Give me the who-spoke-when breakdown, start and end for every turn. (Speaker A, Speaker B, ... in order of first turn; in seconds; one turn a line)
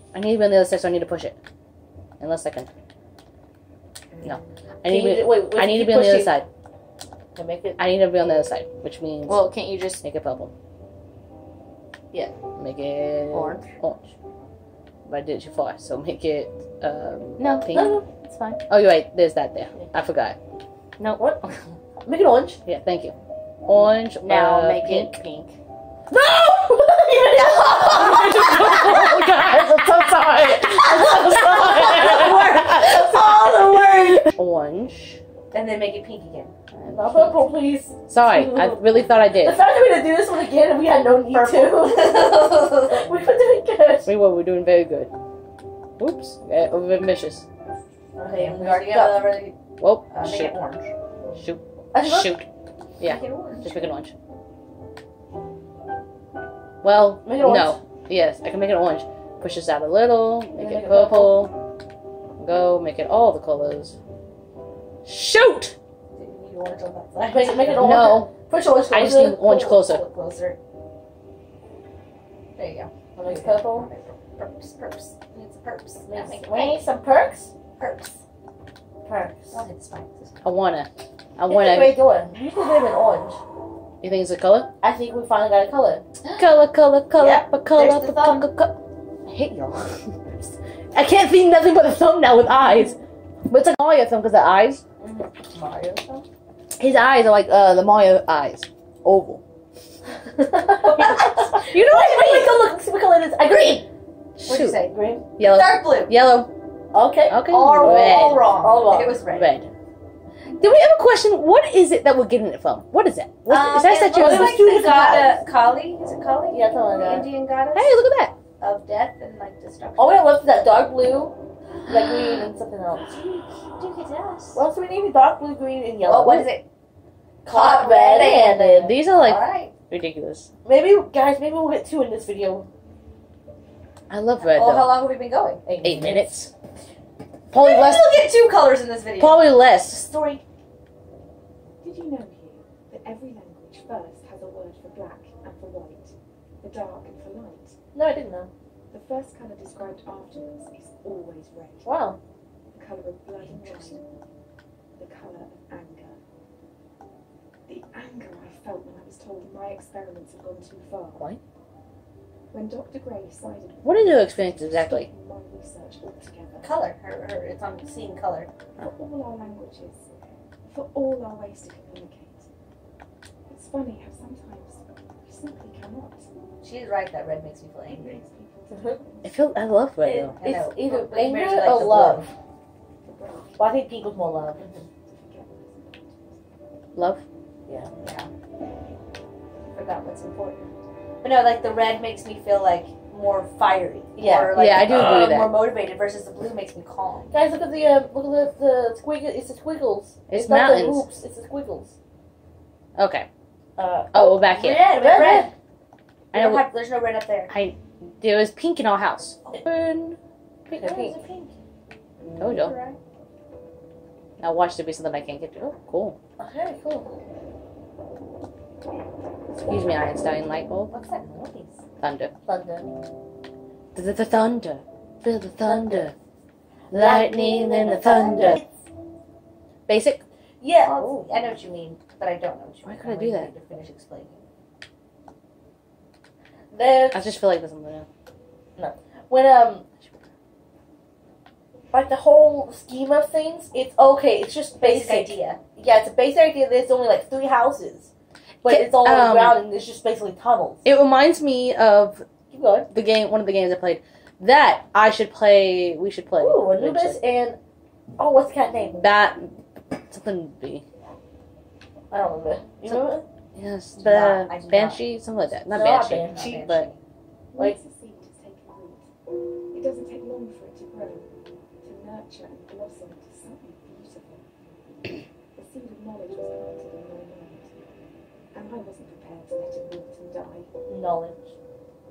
Speaker A: 0.1-1.4
Speaker A: 2.2-2.7
Speaker A: 4.2-6.5
Speaker B: 4.9-6.4
Speaker B: 7.3-7.8
Speaker A: 7.8-10.5
Speaker C: 9.3-10.0
Speaker A: 12.6-14.1
Speaker C: 13.3-13.7
Speaker A: 15.1-18.0
Speaker C: 17.4-18.6
Speaker B: 17.7-18.1
Speaker A: 18.7-20.4
Speaker C: 21.0-21.6
Speaker B: 22.0-22.6
Speaker A: 22.7-23.1
Speaker A: 23.7-25.2
Speaker C: 24.2-25.6
Speaker B: 26.1-29.3
Speaker C: 27.6-28.7
Speaker A: 28.1-32.2
Speaker B: 30.4-34.3
Speaker C: 30.8-33.8
Speaker A: 34.4-35.2
Speaker C: 35.5-36.5
Speaker A: 36.7-37.5
Speaker B: 36.9-38.8
Speaker A: 38.1-39.6
Speaker B: 39.3-44.1
Speaker C: 41.3-43.0
Speaker A: 44.1-45.1
Speaker A: 46.0-47.5
Speaker C: 48.2-49.6
Speaker B: 48.2-49.3
Speaker A: 49.8-50.5
Speaker C: 50.1-50.9
Speaker A: 51.4-52.5
Speaker B: 51.9-52.3
Speaker C: 53.0-54.0
Speaker A: 53.0-54.1
Speaker A: 56.8-61.6
Speaker B: 57.2-57.8
Speaker B: 60.6-61.5
Speaker A: 62.4-64.0
Speaker A: 65.0-65.8
Speaker C: 66.2-68.0
Speaker B: 67.2-69.4
Speaker A: 67.8-68.3
Speaker A: 68.9-70.0
Speaker C: 69.3-70.6
Speaker C: 72.6-77.0
Speaker B: 73.2-73.9
Speaker B: 76.1-77.5
Speaker C: 77.8-78.2
Speaker B: 79.0-79.6
Speaker C: 79.5-80.3
Speaker A: 80.4-81.9
Speaker B: 81.5-83.4
Speaker A: 84.0-84.7
Speaker B: 84.8-86.0
Speaker A: 86.4-88.8
Speaker C: 87.2-88.5
Speaker A: 89.3-90.1
Speaker A: 90.9-94.8
Speaker C: 95.0-96.2
Speaker A: 96.8-99.4
Speaker B: 100.3-103.9
Speaker C: 100.8-102.6
Speaker C: 103.5-103.8
Speaker A: 104.4-104.8
Speaker C: 104.5-106.1
Speaker B: 104.9-105.3
Speaker A: 105.4-106.5
Speaker B: 106.9-109.2
Speaker A: 107.3-108.5
Speaker C: 107.5-109.5
Speaker A: 109.4-109.7
Speaker A: 110.6-114.6
Speaker C: 113.5-118.0
Speaker B: 114.1-115.4
Speaker B: 116.5-117.3
Speaker A: 117.7-118.3
Speaker C: 118.6-120.3
Speaker B: 120.0-121.3
Speaker C: 121.8-124.6
Speaker B: 121.9-123.1
Speaker B: 124.5-126.5
Speaker C: 126.0-126.7
Speaker B: 127.5-129.0
Speaker C: 127.5-129.7
Speaker A: 128.8-130.5
Speaker B: 130.7-132.7
Speaker A: 134.1-135.0
Speaker C: 134.4-135.7
Speaker B: 135.7-136.3
Speaker A: 135.8-136.5
Speaker A: 137.5-138.2
Speaker C: 137.5-140.4
Speaker A: 139.2-140.1
Speaker D: 141.8-147.8
Speaker B: 147.9-148.5
Speaker D: 148.9-151.9
Speaker B: 151.8-152.2
Speaker D: 152.7-154.0
Speaker C: 153.5-153.9
Speaker D: 155.0-156.2
Speaker D: 157.7-161.3
Speaker D: 162.5-166.8
Speaker A: 163.8-165.1
Speaker C: 166.6-168.7
Speaker D: 168.8-172.5
Speaker D: 173.5-176.3
Speaker C: 176.6-178.2
Speaker D: 177.9-179.2
Speaker B: 178.7-179.0
Speaker A: 179.2-180.4
Speaker B: 180.1-182.3
Speaker C: 180.4-182.3
Speaker D: 183.1-183.6
Speaker B: 183.6-184.6
Speaker C: 184.6-184.9
Speaker D: 185.1-186.4
Speaker A: 186.9-187.2
Speaker C: 188.0-188.3
Speaker C: 189.8-190.7
Speaker C: 191.2-197.3
Speaker B: 194.2-194.6
Speaker A: 194.5-195.6
Speaker B: 197.3-201.9
Speaker A: 200.3-201.1
Speaker A: 203.0-203.3
Speaker B: 203.8-204.4
Speaker A: 204.1-204.9
Speaker C: 204.4-205.5
Speaker B: 204.9-205.5
Speaker C: 206.3-207.5
Speaker A: 206.3-206.7
Speaker A: 207.5-211.1
Speaker B: 210.8-211.5
Speaker C: 210.8-211.5
Speaker A: 212.4-212.7
Speaker C: 212.5-213.0
Speaker A: 214.4-216.2
Speaker B: 216.5-217.1
Speaker A: 219.5-220.9
Speaker C: 220.9-221.8
Speaker A: 222.0-222.3
Speaker C: 222.5-222.9
Speaker A: 223.9-226.1
Speaker B: 225.7-226.1
Speaker A: 226.9-228.6
Speaker B: 226.9-228.6
Speaker A: 229.9-230.2
Speaker B: 230.6-231.5
Speaker C: 230.8-234.4
Speaker A: 232.9-233.5
Speaker B: 236.7-237.3
Speaker A: 237.1-238.1
Speaker B: 238.8-239.8
Speaker B: 241.9-248.1
Speaker C: 244.8-245.6
Speaker A: 248.6-249.6
Speaker B: 248.6-250.9
Speaker A: 250.8-252.2
Speaker B: 252.5-252.9
Speaker A: 252.9-257.2
Speaker B: 256.4-257.6
Speaker B: 258.2-259.1
Speaker A: 259.0-260.9
Speaker B: 262.1-263.2
Speaker A: 263.6-266.9
Speaker C: 264.0-265.0
Speaker B: 265.7-266.6
Speaker C: 266.0-267.0
Speaker D: 267.5-269.1
Speaker D: 269.7-274.4
Speaker D: 275.5-277.8
Speaker D: 278.5-280.7
Speaker B: 280.9-281.4